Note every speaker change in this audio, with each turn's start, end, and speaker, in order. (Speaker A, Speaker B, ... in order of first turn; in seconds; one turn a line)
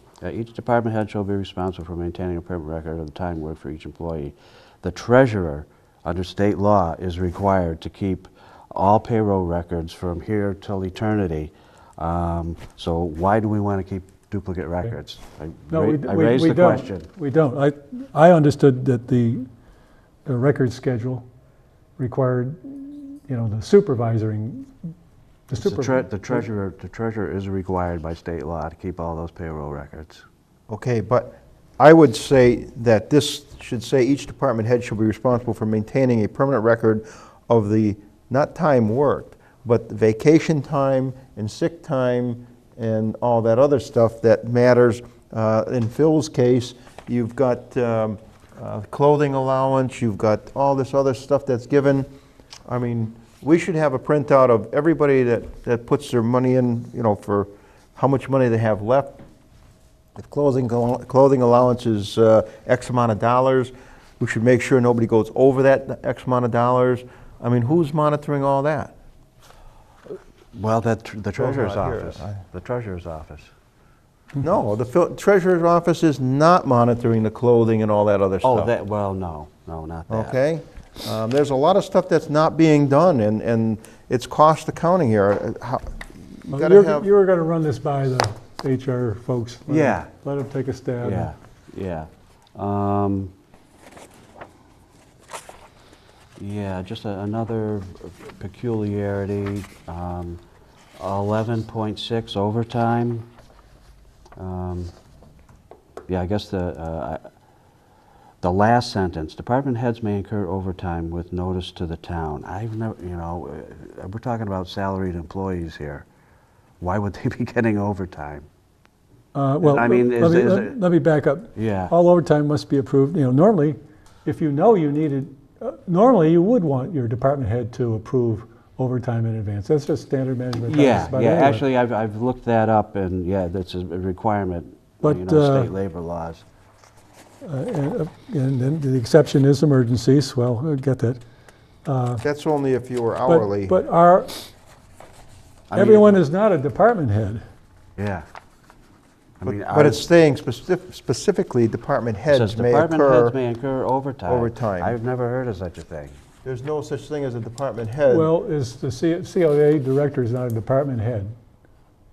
Speaker A: 0.2-17.1
Speaker B: 15.7-19.4
Speaker B: 20.2-21.2
Speaker B: 22.0-24.7
Speaker B: 25.5-26.4
Speaker A: 25.6-30.2
Speaker C: 30.7-52.1
Speaker C: 52.7-59.2
Speaker C: 60.1-68.9
Speaker A: 70.5-73.5
Speaker C: 71.4-72.4
Speaker C: 74.4-78.7
Speaker A: 78.4-80.4
Speaker C: 80.1-87.1
Speaker B: 86.5-91.3
Speaker A: 89.7-90.1
Speaker A: 91.0-93.3
Speaker A: 96.4-100.4
Speaker A: 101.0-103.3
Speaker A: 104.4-104.9
Speaker A: 106.1-107.3
Speaker A: 108.4-116.0
Speaker A: 116.8-118.5
Speaker B: 119.3-131.6
Speaker A: 119.6-120.8
Speaker A: 121.5-121.9
Speaker A: 130.6-136.4
Speaker B: 135.0-135.7
Speaker B: 137.4-141.2
Speaker B: 141.8-142.2
Speaker C: 142.2-143.8
Speaker B: 143.2-144.4
Speaker A: 145.7-146.1
Speaker B: 145.7-147.4
Speaker A: 148.0-148.2
Speaker A: 149.4-150.0
Speaker C: 149.4-153.4
Speaker A: 152.3-156.2
Speaker C: 154.2-154.9
Speaker C: 156.4-158.3
Speaker B: 158.1-161.3